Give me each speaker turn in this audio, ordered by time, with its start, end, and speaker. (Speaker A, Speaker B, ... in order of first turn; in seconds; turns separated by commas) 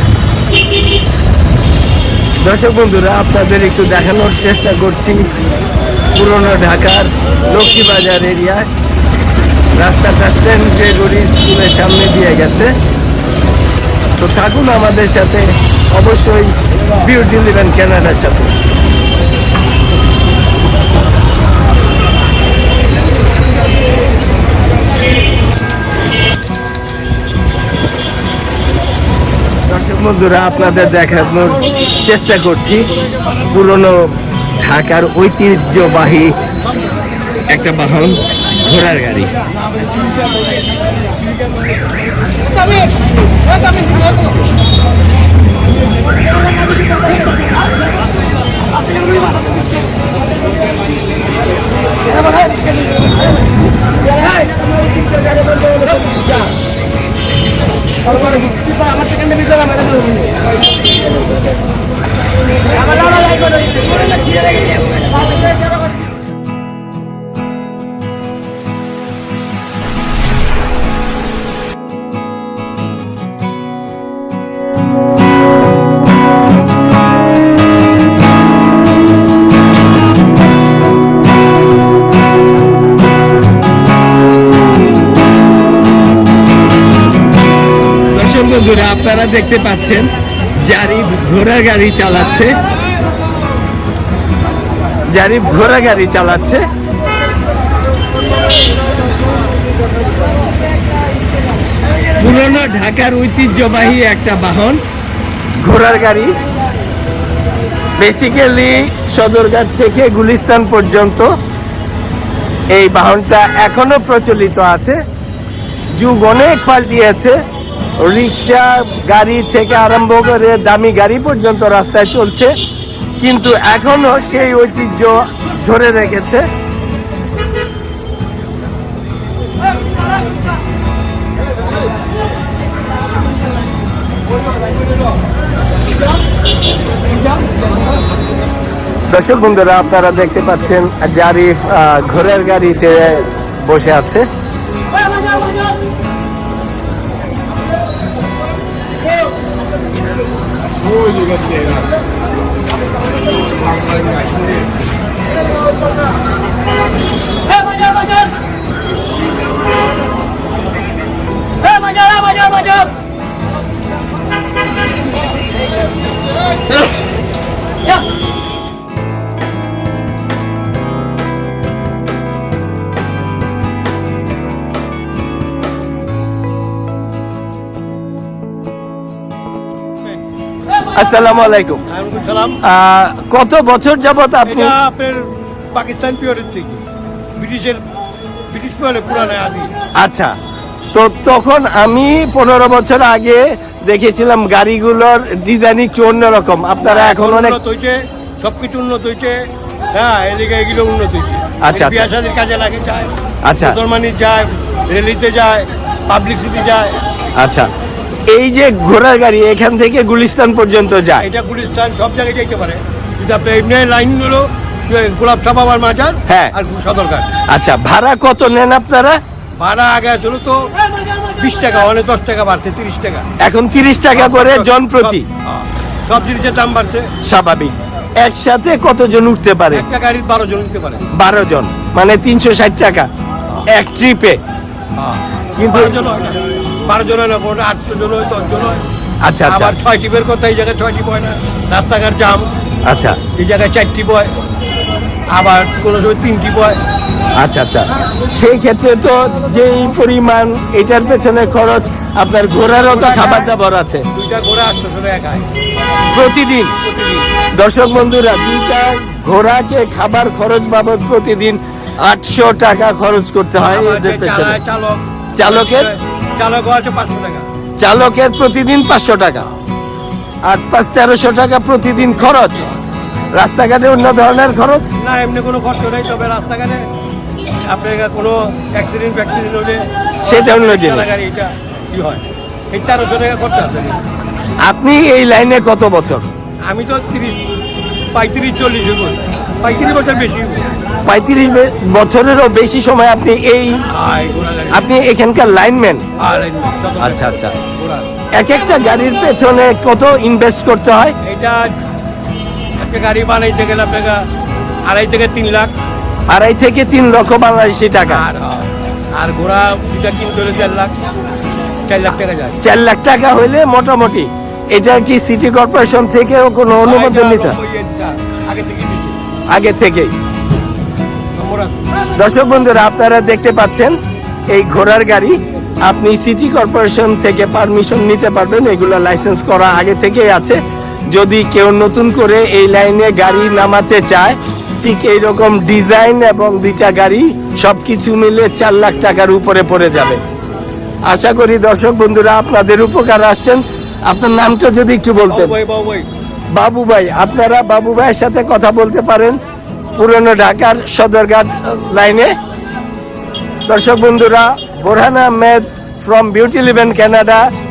Speaker A: 2.4-5.3, Speaker A: 6.1-8.7, Speaker A: 9.7-12.7, Speaker A: 14.2-18.5, Speaker A: 29.6-36.3, Speaker A: 37.5-39.3, Speaker A: 88.1-92.6, Speaker A: 95.1-96.6, Speaker A: 102.1-104.8, Speaker A: 105.6-106.4, Speaker A: 108.0-111.3, Speaker A: 112.7-115.0, Speaker A: 115.9-117.4, Speaker A: 118.0-122.5, Speaker A: 123.2-126.5, Speaker A: 139.1-144.2, Speaker A: 180.9-181.8, Speaker B: 181.9-182.6, Speaker A: 182.6-184.7, Speaker B: 184.5-186.8, Speaker B: 187.3-187.8, Speaker B: 188.5-189.7, Speaker A: 189.9-190.3, Speaker A: 190.9-197.6, Speaker B: 196.8-207.0, Speaker A: 201.6-202.1, Speaker A: 203.4-203.8, Speaker A: 207.4-207.7, Speaker A: 208.2-211.2, Speaker B: 211.2-217.3, Speaker A: 216.3-216.5, Speaker A: 217.5-219.2, Speaker B: 219.6-223.3, Speaker A: 223.4-225.2, Speaker B: 224.1-227.1, Speaker A: 227.2-229.8, Speaker B: 229.7-231.1, Speaker A: 231.1-233.1, Speaker A: 233.7-234.4, Speaker B: 234.9-238.8, Speaker A: 235.6-236.0, Speaker A: 239.2-239.7, Speaker B: 239.4-242.5, Speaker A: 242.8-243.2, Speaker B: 243.3-244.3, Speaker B: 245.3-246.8, Speaker A: 247.4-254.1, Speaker B: 252.6-253.5, Speaker B: 254.1-255.4, Speaker A: 256.1-256.8, Speaker B: 256.8-257.2, Speaker A: 257.6-264.6, Speaker B: 263.6-267.5, Speaker A: 265.4-265.9, Speaker A: 267.8-269.5, Speaker A: 270.4-272.7, Speaker A: 273.3-274.9, Speaker B: 275.0-276.9, Speaker B: 277.5-284.0, Speaker A: 280.2-281.1, Speaker A: 284.6-286.3, Speaker B: 286.7-287.4, Speaker B: 288.1-290.7, Speaker A: 291.0-293.8, Speaker B: 293.9-294.9, Speaker A: 294.7-296.0, Speaker B: 296.2-298.1, Speaker A: 297.0-297.5, Speaker A: 298.3-301.1, Speaker B: 301.2-301.7, Speaker B: 302.8-304.2, Speaker B: 304.8-305.7, Speaker A: 306.3-308.2, Speaker B: 308.0-310.9, Speaker B: 311.9-312.6, Speaker A: 312.6-317.6, Speaker B: 316.8-319.2, Speaker A: 319.5-320.1, Speaker B: 321.3-322.0, Speaker A: 322.1-324.0, Speaker A: 324.5-340.2, Speaker A: 341.1-345.5, Speaker B: 345.3-346.1, Speaker A: 346.5-349.4, Speaker A: 349.9-352.3, Speaker A: 353.6-357.5